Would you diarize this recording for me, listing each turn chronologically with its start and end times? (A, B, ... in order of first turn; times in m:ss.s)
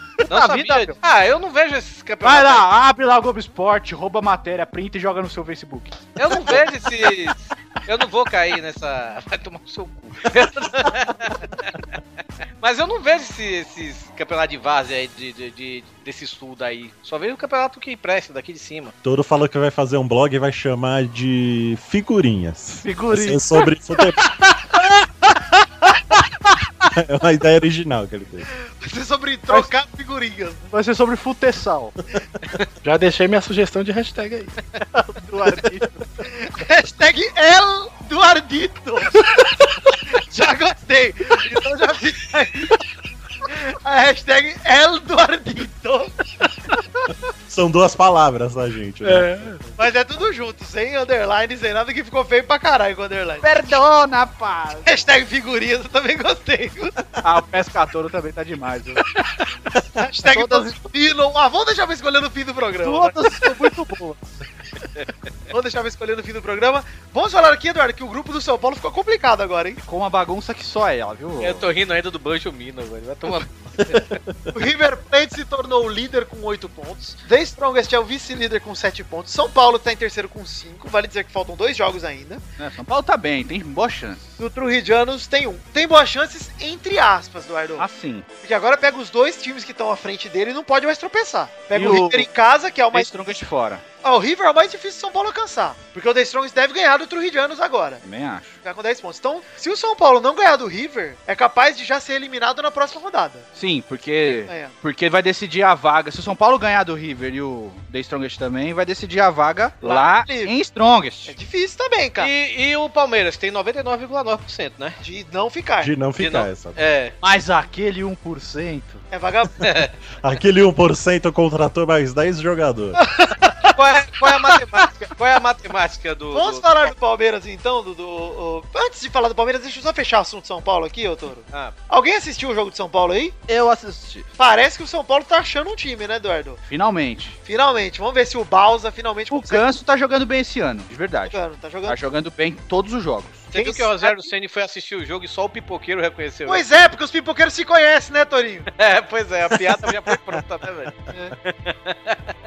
0:00.3-0:01.0 A
0:00.3-0:02.7 B
0:02.2-0:06.6 A
0:06.2-0:11.8 B
0:12.6-0:18.9 B
0:19.0-0:24.3 C
0:22.8-0:23.6 A
0:26.9-0:28.5 C
0:28.7-0:30.6 D
0:30.7-0:32.0 A
0:32.8-0:34.5 E
0:34.9-0:36.0 A
0:36.2-0:39.5 D
0:40.1-0:42.8 D
0:43.5-0:46.2 D
0:47.5-0:49.5 C
0:49.0-0:49.6 E
0:49.8-0:53.5 D
0:53.4-0:54.9 A
0:54.8-0:57.0 D
0:57.2-0:59.1 A
1:00.0-1:03.2 D
1:00.3-1:00.8 A
1:02.8-1:04.2 A
1:05.5-1:09.8 D
1:09.8-1:11.7 A
1:11.4-1:14.2 B
1:13.8-1:14.5 C
1:14.5-1:22.4 D
1:22.6-1:24.2 A
1:24.4-1:27.8 D
1:27.8-1:28.3 A
1:28.4-1:33.1 D
1:31.7-1:32.3 A
1:32.9-1:33.8 A
1:34.0-1:38.0 D
1:38.0-1:38.6 A
1:38.6-1:43.5 D
1:43.6-1:51.4 A
1:44.5-1:44.7 D
1:49.8-1:50.5 D
1:51.3-1:52.3 D
1:52.2-1:55.0 B
1:55.0-1:55.9 D
1:55.8-1:56.8 C
1:56.2-1:57.2 B
1:57.2-1:59.0 A
1:59.1-1:59.5 D
1:59.6-1:59.9 B
2:00.2-2:03.0 C
2:03.0-2:04.9 D
2:03.7-2:06.9 B
2:06.3-2:13.4 D
2:13.5-2:14.3 A
2:14.4-2:16.6 D
2:16.6-2:17.4 A
2:17.4-2:19.7 D
2:19.3-2:23.4 A
2:21.3-2:22.0 D
2:23.5-2:26.7 B
2:23.5-2:24.3 D
2:26.5-2:28.7 D
2:28.8-2:32.3 B